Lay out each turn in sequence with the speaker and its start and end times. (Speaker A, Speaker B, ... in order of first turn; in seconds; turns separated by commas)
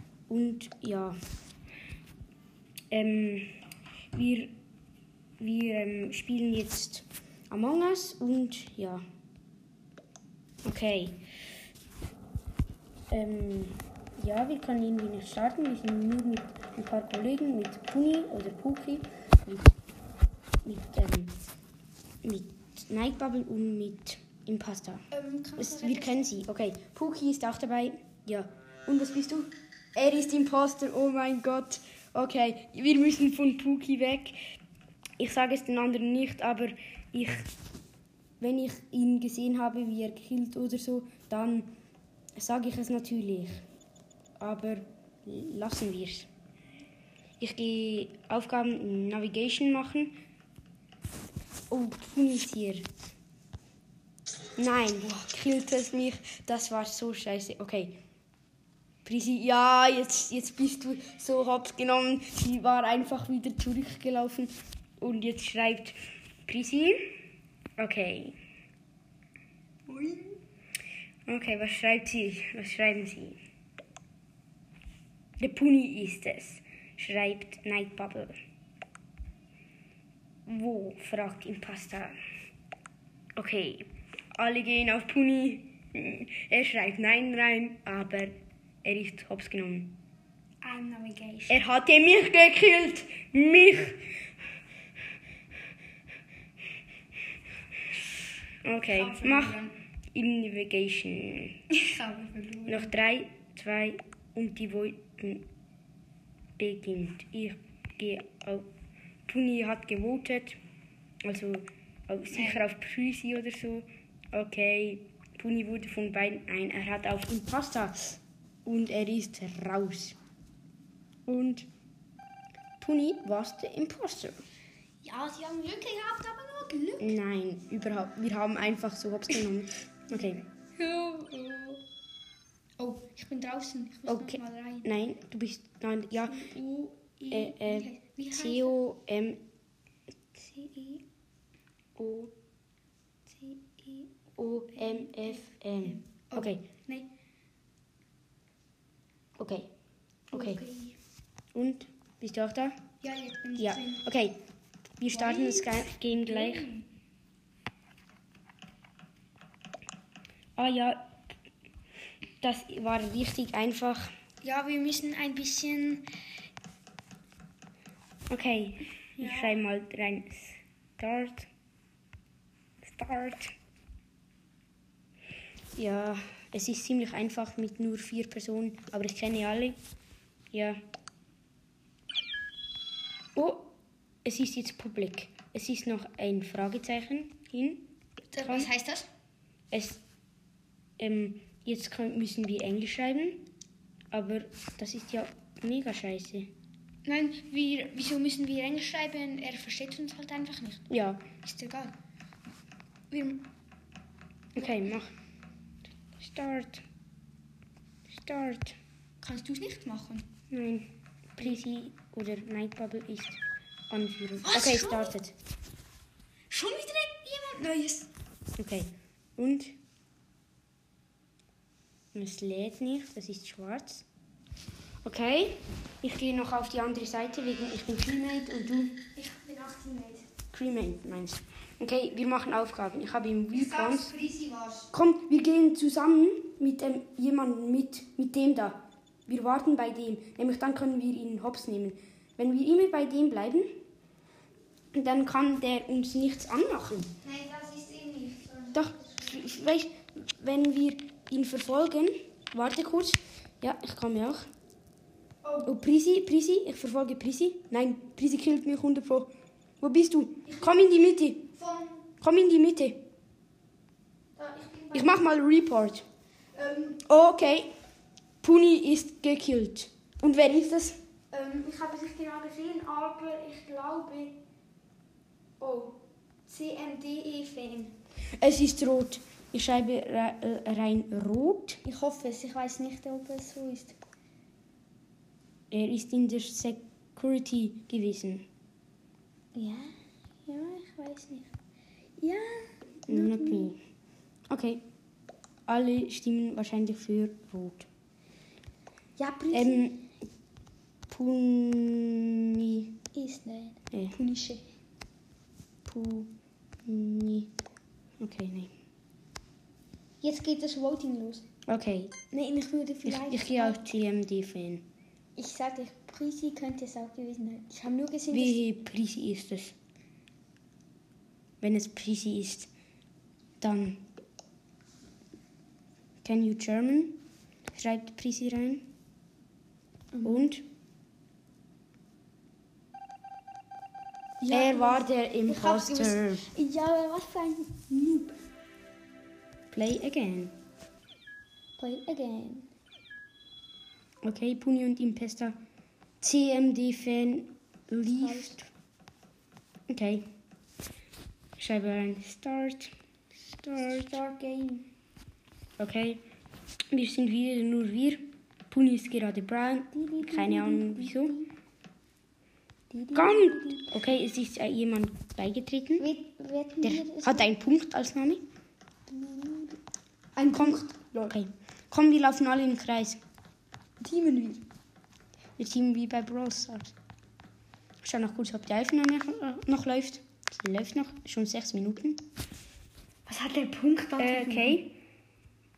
Speaker A: 0.3-1.2, Speaker A: 2.9-3.5, Speaker A: 4.1-4.5, Speaker A: 5.4-9.0, Speaker A: 10.6-11.2, Speaker A: 13.1-19.7, Speaker A: 20.6-21.3, Speaker A: 22.2-25.1, Speaker B: 25.1-26.2, Speaker A: 25.6-34.4, Speaker A: 35.2-37.5, Speaker A: 38.4-41.7, Speaker A: 42.4-43.6, Speaker A: 44.4-46.3, Speaker A: 47.4-50.1, Speaker A: 51.7-52.9, Speaker A: 54.6-58.0, Speaker A: 59.0-66.0, Speaker A: 66.5-67.1, Speaker A: 67.8-68.4, Speaker B: 69.9-70.3, Speaker A: 71.3-73.4, Speaker A: 75.4-78.3, Speaker A: 80.5-82.2, Speaker A: 83.4-90.0, Speaker B: 90.6-91.6, Speaker A: 91.5-94.1, Speaker A: 98.6-101.6, Speaker B: 98.9-99.7, Speaker B: 101.7-102.9, Speaker A: 102.7-105.5, Speaker A: 106.6-108.7, Speaker A: 109.3-110.6, Speaker A: 111.2-120.2, Speaker B: 112.3-112.6, Speaker A: 121.3-121.7, Speaker A: 122.8-124.4, Speaker B: 125.0-127.2, Speaker A: 127.0-130.4, Speaker B: 130.1-131.8, Speaker B: 132.8-134.9, Speaker A: 134.1-136.4, Speaker B: 136.2-138.8, Speaker A: 137.3-139.4, Speaker B: 140.3-141.0, Speaker A: 142.0-142.3, Speaker B: 143.3-144.2, Speaker A: 144.4-146.6, Speaker B: 144.7-147.1, Speaker A: 149.4-149.7, Speaker A: 150.3-150.6, Speaker B: 150.3-151.0, Speaker A: 151.5-152.8, Speaker B: 153.0-154.1, Speaker A: 153.6-154.4, Speaker A: 155.0-156.7, Speaker B: 155.1-156.9, Speaker A: 160.6-161.1, Speaker A: 162.4-164.1, Speaker B: 164.4-166.0, Speaker A: 168.3-171.5, Speaker B: 169.2-169.6, Speaker A: 172.8-173.6, Speaker A: 175.8-179.8, Speaker A: 180.5-180.8, Speaker A: 183.3-183.7, Speaker A: 184.2-187.8, Speaker B: 188.3-189.1, Speaker A: 188.4-188.7, Speaker A: 189.7-190.0, Speaker A: 191.0-193.4, Speaker A: 194.1-196.5, Speaker B: 197.1-200.9, Speaker A: 200.9-201.2, Speaker B: 201.4-201.9, Speaker B: 203.1-203.5, Speaker A: 204.6-205.1, Speaker A: 206.2-206.8, Speaker A: 208.1-208.8, Speaker B: 209.2-210.2, Speaker A: 210.5-215.3, Speaker B: 214.4-215.1, Speaker B: 216.5-218.1, Speaker A: 218.6-219.8, Speaker A: 222.1-224.1, Speaker A: 225.0-228.9, Speaker B: 229.2-230.3, Speaker A: 230.5-234.1, Speaker B: 233.5-234.9, Speaker A: 234.9-243.7, Speaker A: 244.9-247.1, Speaker B: 247.2-249.1, Speaker A: 248.7-254.5, Speaker B: 255.4-255.7, Speaker A: 255.7-261.4, Speaker B: 260.4-260.9, Speaker B: 261.4-262.0, Speaker A: 262.2-263.0, Speaker B: 264.4-265.2, Speaker A: 264.9-266.1, Speaker B: 266.6-267.0, Speaker A: 267.0-267.7, Speaker A: 268.4-271.0, Speaker B: 271.3-274.4, Speaker B: 275.6-277.9, Speaker A: 278.4-281.8, Speaker B: 281.8-284.0, Speaker A: 285.7-288.4, Speaker B: 289.6-289.9, Speaker B: 290.4-291.5, Speaker B: 292.2-293.7, Speaker A: 293.1-293.8, Speaker A: 294.5-294.8, Speaker A: 295.7-297.9, Speaker B: 299.2-299.9, Speaker A: 299.5-300.0, Speaker A: 301.1-302.9, Speaker B: 303.1-304.7, Speaker A: 305.9-306.3, Speaker A: 306.9-307.5, Speaker A: 308.2-308.7, Speaker B: 310.2-311.5, Speaker A: 311.7-312.1, Speaker B: 312.3-313.8, Speaker A: 313.1-314.9, Speaker B: 315.4-318.6, Speaker A: 318.3-319.8, Speaker A: 321.6-322.7, Speaker A: 323.6-324.0, Speaker A: 326.2-327.2, Speaker A: 327.7-328.9, Speaker B: 330.1-330.5, Speaker A: 330.2-330.6, Speaker B: 334.4-338.4, Speaker A: 334.5-336.4, Speaker A: 339.7-340.5, Speaker B: 341.8-342.7, Speaker A: 344.2-345.6, Speaker A: 346.2-348.7, Speaker B: 348.2-348.6, Speaker A: 349.9-350.3, Speaker A: 351.6-354.2, Speaker B: 354.1-354.9, Speaker A: 355.8-356.2, Speaker A: 356.9-361.3, Speaker B: 359.9-361.5, Speaker B: 362.9-364.0, Speaker A: 363.1-366.1, Speaker B: 366.0-367.5, Speaker A: 366.8-368.4, Speaker B: 369.1-369.8, Speaker B: 370.4-371.4, Speaker A: 370.6-373.2, Speaker B: 374.0-374.6, Speaker A: 375.6-376.9, Speaker A: 378.0-382.2, Speaker B: 383.3-384.8, Speaker A: 384.2-384.9